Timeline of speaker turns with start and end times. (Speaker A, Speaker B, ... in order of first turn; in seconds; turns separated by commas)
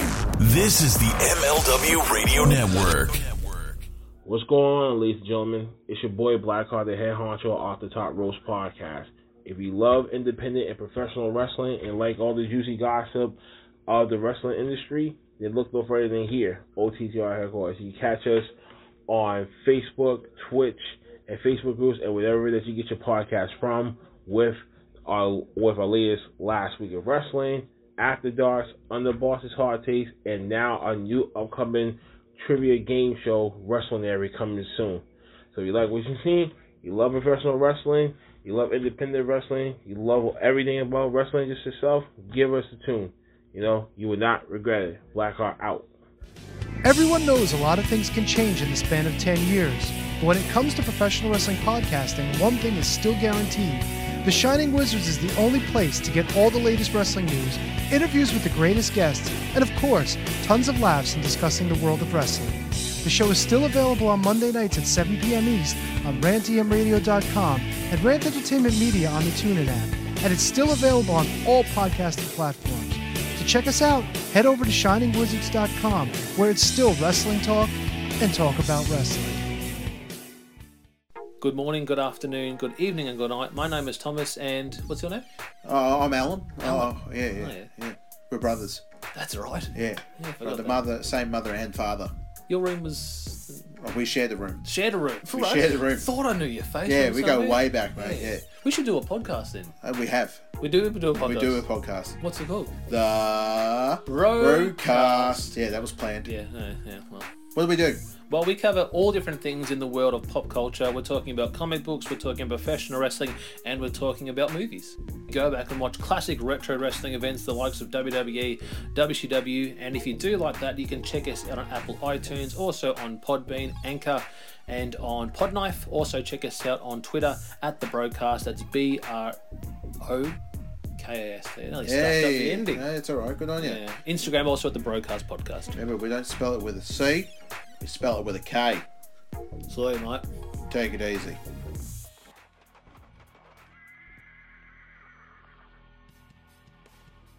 Speaker A: 0.4-3.9, Speaker B: 4.2-18.5, Speaker B: 19.1-45.9, Speaker C: 46.8-79.4, Speaker D: 81.4-85.3, Speaker E: 85.7-88.8, Speaker D: 86.6-87.7, Speaker D: 89.1-90.9, Speaker E: 89.7-92.1, Speaker D: 92.5-93.7, Speaker E: 93.8-94.7, Speaker D: 94.6-99.8, Speaker E: 95.2-96.1, Speaker E: 96.8-98.5, Speaker E: 99.8-100.5, Speaker D: 100.6-102.8, Speaker E: 101.1-102.2, Speaker E: 102.9-106.3, Speaker D: 104.1-105.5, Speaker D: 106.2-107.3, Speaker E: 107.5-108.1, Speaker D: 108.2-129.4, Speaker D: 130.0-130.4, Speaker D: 131.0-132.9, Speaker E: 131.8-133.8, Speaker D: 133.6-135.8, Speaker E: 135.7-138.9, Speaker D: 139.7-140.3, Speaker E: 140.6-141.4